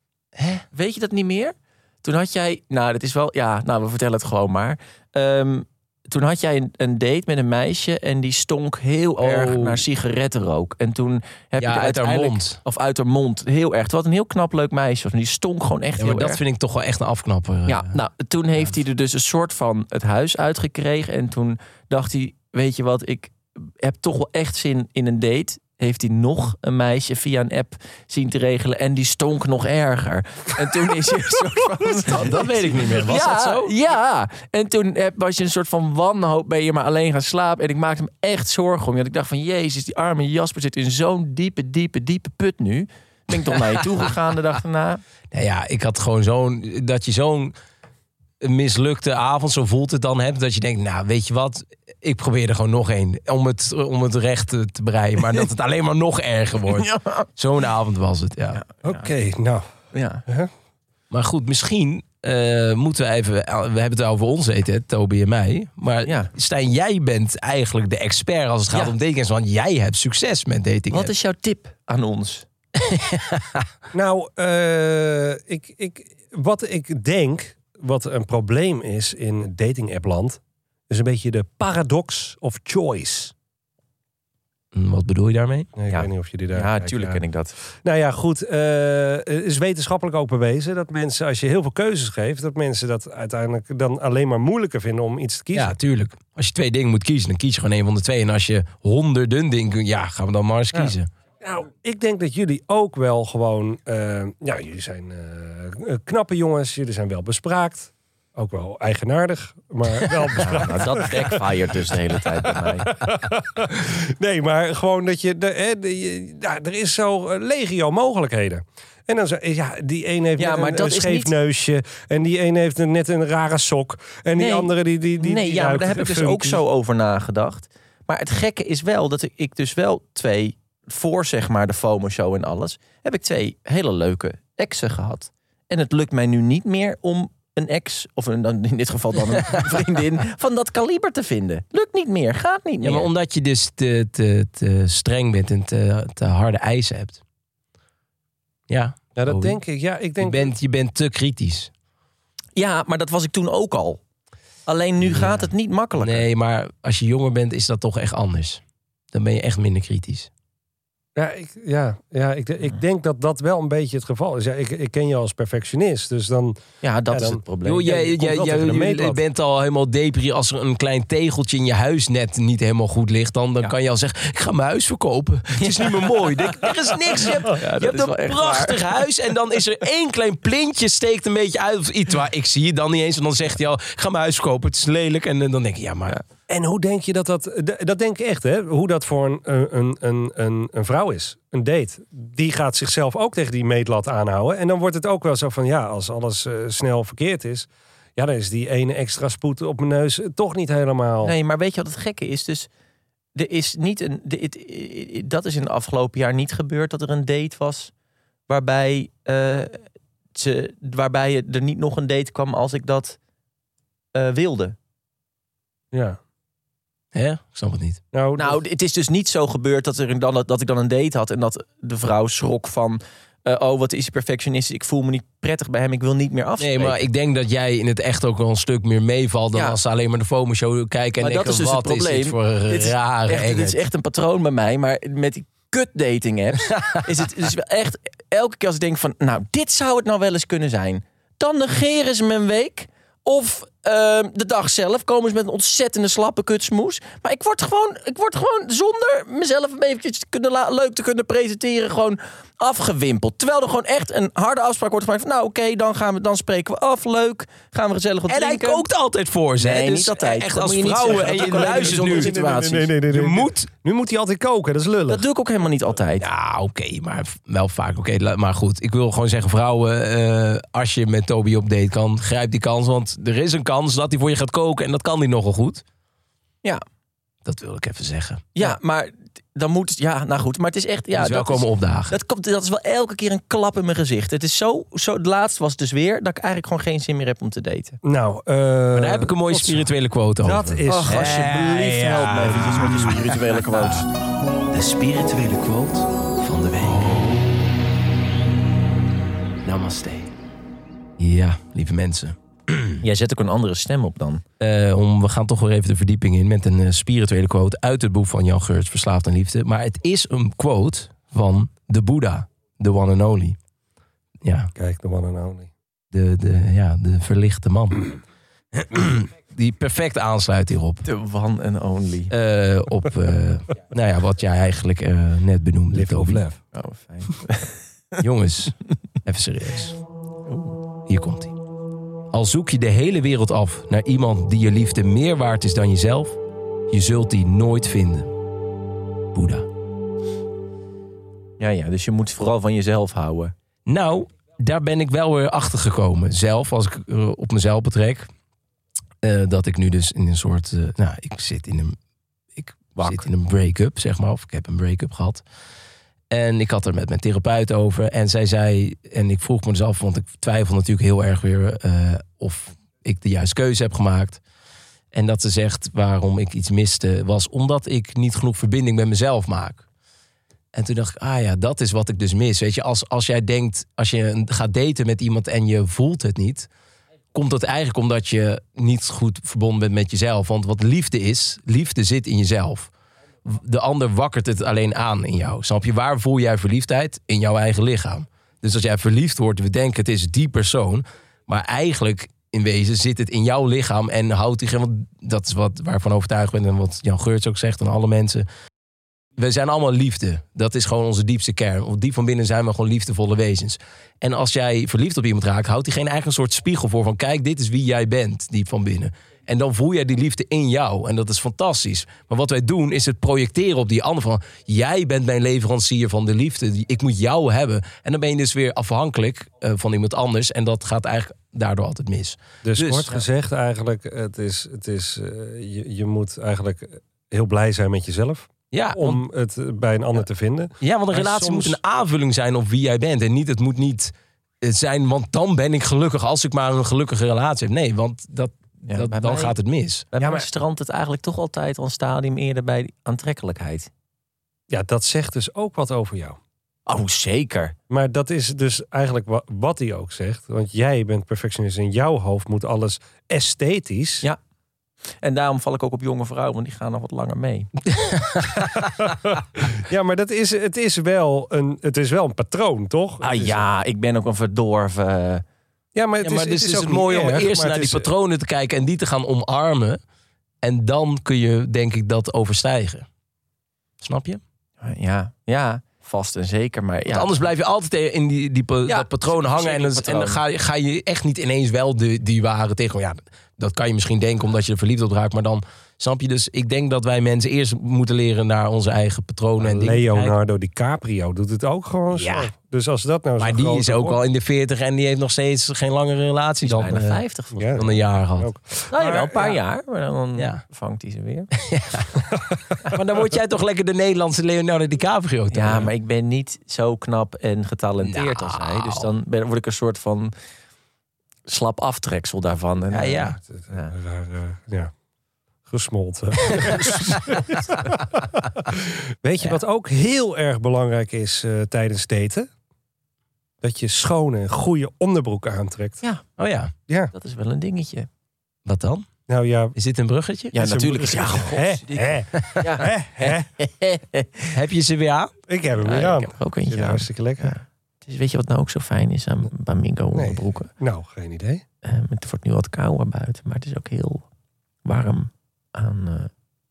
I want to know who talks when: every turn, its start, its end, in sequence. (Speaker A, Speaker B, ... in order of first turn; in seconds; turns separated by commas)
Speaker A: 0.4-0.6, Speaker B: 0.7-16.4, Speaker A: 9.2-9.8, Speaker A: 11.6-12.6, Speaker A: 16.0-17.9, Speaker B: 17.7-45.0, Speaker A: 32.1-33.7, Speaker A: 45.3-47.5, Speaker A: 48.4-58.6, Speaker B: 56.7-57.3, Speaker B: 58.5-58.9, Speaker C: 58.8-59.7, Speaker B: 59.9-60.2, Speaker A: 61.1-71.1, Speaker B: 66.1-66.3, Speaker B: 70.9-72.5, Speaker A: 72.8-73.7, Speaker C: 73.9-83.3, Speaker A: 84.7-85.7, Speaker C: 85.8-87.2, Speaker B: 85.9-87.5, Speaker C: 87.8-95.8, Speaker A: 95.5-101.1, Speaker C: 101.4-111.5, Speaker B: 110.4-112.9, Speaker C: 112.5-126.6, Speaker B: 120.4-121.3, Speaker B: 124.4-143.1, Speaker A: 142.8-147.2, Speaker A: 148.7-149.6, Speaker C: 149.2-150.5, Speaker A: 150.2-151.7, Speaker B: 152.6-154.0, Speaker B: 154.7-156.3, Speaker A: 155.1-155.4, Speaker A: 156.0-158.6, Speaker A: 159.1-160.3, Speaker C: 161.2-169.2, Speaker B: 166.8-167.9, Speaker A: 167.6-186.2, Speaker B: 175.6-179.0, Speaker C: 186.5-201.3, Speaker B: 201.2-202.7, Speaker B: 203.3-207.9, Speaker B: 208.5-213.2, Speaker B: 214.2-214.8, Speaker C: 215.9-216.2, Speaker A: 217.1-218.0, Speaker C: 218.1-218.6, Speaker B: 218.4-227.0, Speaker A: 226.6-233.8, Speaker B: 231.2-258.9, Speaker A: 236.7-237.0, Speaker A: 258.3-262.4, Speaker B: 259.6-262.9, Speaker C: 261.1-265.2, Speaker A: 263.1-263.7, Speaker B: 265.1-266.3, Speaker A: 266.2-275.8, Speaker A: 277.4-278.7, Speaker B: 278.6-288.0, Speaker A: 281.1-282.2, Speaker C: 288.0-289.9, Speaker A: 288.9-294.1, Speaker C: 290.4-292.8, Speaker B: 290.9-294.1, Speaker A: 294.7-297.4, Speaker A: 299.6-300.3, Speaker A: 301.2-303.0, Speaker B: 303.0-304.4, Speaker A: 304.6-313.6, Speaker A: 314.4-314.7, Speaker C: 314.8-315.7, Speaker A: 316.1-318.1, Speaker A: 318.7-321.1, Speaker B: 321.1-322.3, Speaker A: 322.3-326.4, Speaker C: 325.9-326.6, Speaker B: 326.7-327.8, Speaker A: 328.2-330.0, Speaker B: 330.5-330.8, Speaker A: 331.1-331.5, Speaker A: 332.3-336.4, Speaker A: 336.9-338.3, Speaker A: 339.3-339.7, Speaker B: 341.6-343.5, Speaker A: 343.9-348.3, Speaker A: 349.2-352.0, Speaker A: 352.6-355.4, Speaker A: 356.3-364.4, Speaker A: 365.1-369.8, Speaker A: 370.7-376.7, Speaker A: 377.3-382.9, Speaker A: 383.4-398.5, Speaker A: 399.4-423.2, Speaker C: 422.6-431.8, Speaker A: 428.7-429.2, Speaker A: 430.8-440.1, Speaker B: 438.9-439.6, Speaker B: 440.1-443.9, Speaker C: 440.2-440.5, Speaker C: 444.7-446.4, Speaker B: 446.9-447.8, Speaker C: 447.9-454.3, Speaker B: 455.2-457.7, Speaker A: 457.9-458.9, Speaker C: 458.6-463.6, Speaker B: 463.2-465.4, Speaker C: 465.9-468.1, Speaker A: 466.2-470.0, Speaker A: 470.6-473.1, Speaker A: 474.0-474.4, Speaker B: 474.8-477.4, Speaker A: 477.1-490.3, Speaker B: 478.9-480.4, Speaker C: 489.6-494.2, Speaker A: 492.1-492.5, Speaker A: 493.4-497.2, Speaker B: 496.6-497.9, Speaker C: 497.6-499.6, Speaker A: 497.8-498.5, Speaker B: 498.9-501.5, Speaker A: 500.4-500.6, Speaker A: 501.6-502.1, Speaker A: 502.9-505.9, Speaker B: 505.5-510.3, Speaker A: 508.0-509.1, Speaker B: 511.5-513.9, Speaker A: 512.9-513.4, Speaker C: 513.5-514.9, Speaker C: 515.6-522.5, Speaker A: 516.5-517.4, Speaker C: 523.6-526.0, Speaker A: 526.4-526.7, Speaker B: 527.1-528.1, Speaker A: 528.6-529.1, Speaker C: 529.3-529.8, Speaker A: 529.8-530.6, Speaker B: 530.5-534.5, Speaker C: 530.6-533.5, Speaker A: 532.4-532.6, Speaker A: 534.5-535.3, Speaker C: 535.5-537.6, Speaker B: 535.8-540.7, Speaker C: 540.1-541.6, Speaker B: 541.8-544.2, Speaker B: 544.9-546.3